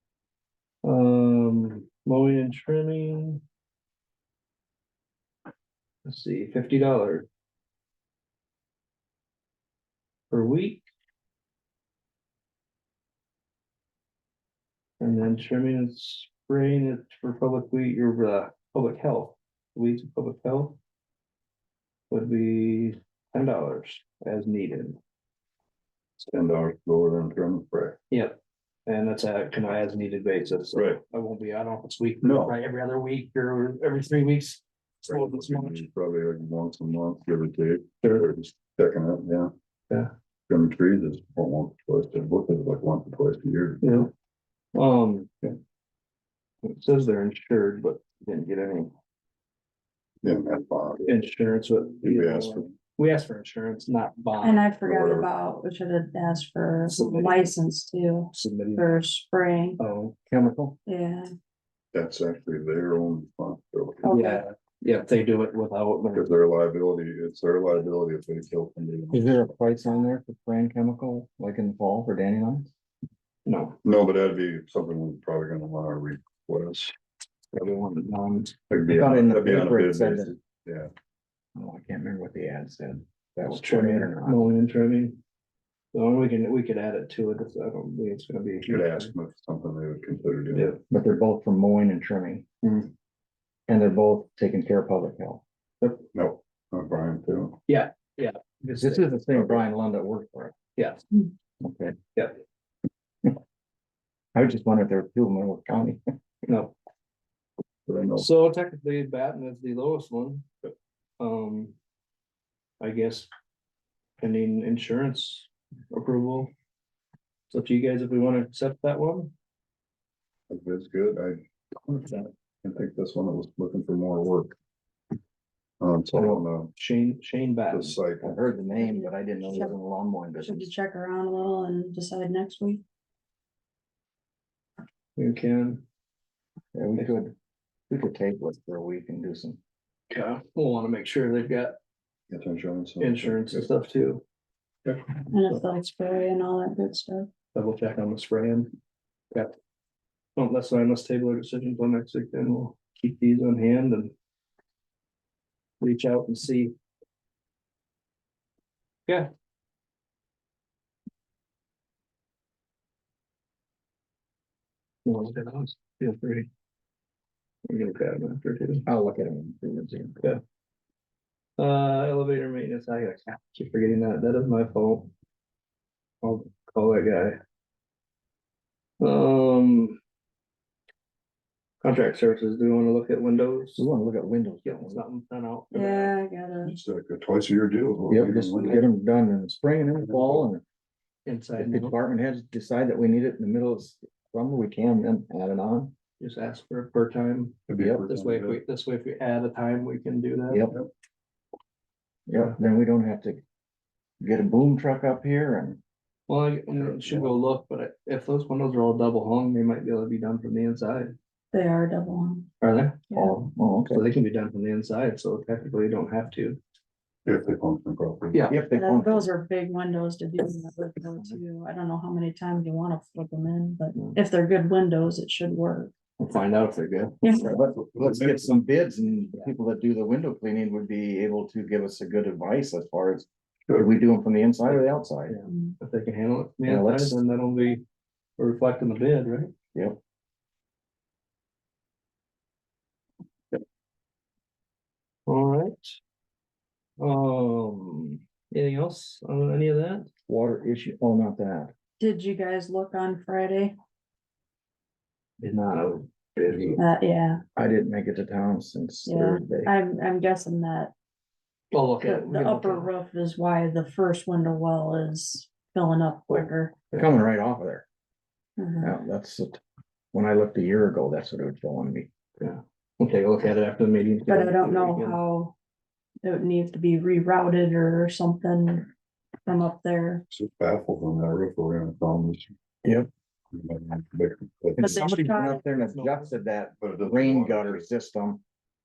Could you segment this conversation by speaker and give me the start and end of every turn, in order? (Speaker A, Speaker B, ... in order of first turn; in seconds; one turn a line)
Speaker A: 0.8-3.4
Speaker A: 6.0-7.3
Speaker A: 10.3-10.9
Speaker A: 15.0-20.8
Speaker A: 22.1-25.0
Speaker B: 26.2-28.0
Speaker A: 28.1-35.8
Speaker B: 32.2-32.5
Speaker B: 35.1-39.5
Speaker B: 40.5-43.8
Speaker A: 43.8-44.1
Speaker A: 44.7-45.3
Speaker A: 46.6-48.9
Speaker B: 50.2-51.0
Speaker A: 51.0-54.6
Speaker B: 52.0-52.7
Speaker C: 54.4-59.8
Speaker B: 54.8-55.3
Speaker A: 56.9-57.5
Speaker A: 58.3-58.9
Speaker A: 59.8-60.2
Speaker D: 60.3-60.8
Speaker C: 60.9-61.3
Speaker B: 61.9-64.1
Speaker C: 64.0-64.5
Speaker A: 64.1-66.3
Speaker B: 66.1-69.4
Speaker D: 69.1-72.7
Speaker A: 73.5-73.8
Speaker B: 73.8-76.9
Speaker A: 77.5-78.6
Speaker B: 78.7-80.9
Speaker D: 78.9-80.3
Speaker D: 81.6-84.4
Speaker A: 83.5-85.2
Speaker A: 85.9-89.1
Speaker B: 88.7-90.8
Speaker A: 90.5-90.8
Speaker D: 90.9-92.5
Speaker D: 93.7-96.0
Speaker B: 96.1-97.6
Speaker A: 97.7-99.6
Speaker D: 98.8-100.5
Speaker A: 100.8-101.1
Speaker D: 101.6-102.0
Speaker D: 104.3-106.0
Speaker A: 106.5-106.8
Speaker B: 107.9-108.3
Speaker A: 108.2-110.7
Speaker A: 111.2-111.8
Speaker A: 112.8-113.3
Speaker A: 114.2-116.5
Speaker A: 117.5-119.3
Speaker B: 120.5-124.5
Speaker B: 125.8-126.7
Speaker A: 126.1-128.0
Speaker B: 127.7-128.4
Speaker D: 128.2-130.7
Speaker C: 128.8-129.7
Speaker C: 130.4-132.8
Speaker A: 135.2-135.8
Speaker D: 136.8-137.3
Speaker D: 137.9-139.6
Speaker A: 140.1-141.8
Speaker B: 142.3-143.5
Speaker A: 143.0-144.2
Speaker C: 145.3-147.3
Speaker A: 147.5-148.7
Speaker A: 150.4-154.1
Speaker A: 155.8-156.7
Speaker A: 165.1-166.5
Speaker A: 167.7-168.9
Speaker D: 168.9-170.2
Speaker A: 171.6-175.1
Speaker A: 176.2-177.4
Speaker A: 179.0-180.0
Speaker A: 181.8-183.9
Speaker D: 183.8-185.0
Speaker A: 184.7-186.1
Speaker C: 185.7-186.8
Speaker B: 186.7-188.8
Speaker D: 188.1-190.6
Speaker B: 190.0-190.5
Speaker A: 191.3-191.9
Speaker D: 191.6-195.9
Speaker A: 196.2-200.7
Speaker B: 197.7-198.6
Speaker D: 197.8-198.0
Speaker D: 200.5-200.8
Speaker D: 202.3-203.4
Speaker D: 204.2-205.8
Speaker A: 206.3-211.1
Speaker D: 206.8-207.3
Speaker C: 211.5-212.5
Speaker A: 212.6-213.1
Speaker C: 213.1-213.3
Speaker D: 213.1-214.0
Speaker A: 213.9-216.6
Speaker B: 217.3-218.5
Speaker A: 218.3-218.6
Speaker D: 218.5-219.3
Speaker C: 218.7-225.9
Speaker A: 226.2-227.5
Speaker C: 227.2-227.5
Speaker D: 227.4-235.3
Speaker B: 228.0-228.4
Speaker A: 234.7-237.8
Speaker C: 235.5-235.8
Speaker D: 236.7-237.2
Speaker A: 238.4-239.5
Speaker A: 245.3-246.0
Speaker A: 247.0-250.1
Speaker D: 250.3-251.7
Speaker C: 252.0-253.8
Speaker A: 255.4-256.8
Speaker C: 256.8-257.4
Speaker D: 257.6-259.7
Speaker C: 259.1-260.9
Speaker A: 261.7-262.9
Speaker C: 262.0-266.8
Speaker D: 266.9-267.9
Speaker C: 268.6-268.9
Speaker D: 268.8-269.6
Speaker D: 270.1-272.1
Speaker A: 272.4-275.2
Speaker C: 274.3-275.5
Speaker C: 276.2-278.9
Speaker C: 279.5-280.2
Speaker B: 280.3-282.5
Speaker D: 282.8-283.1
Speaker B: 283.5-285.1
Speaker D: 284.8-288.4
Speaker C: 284.8-285.6
Speaker A: 285.0-286.4
Speaker B: 286.8-287.9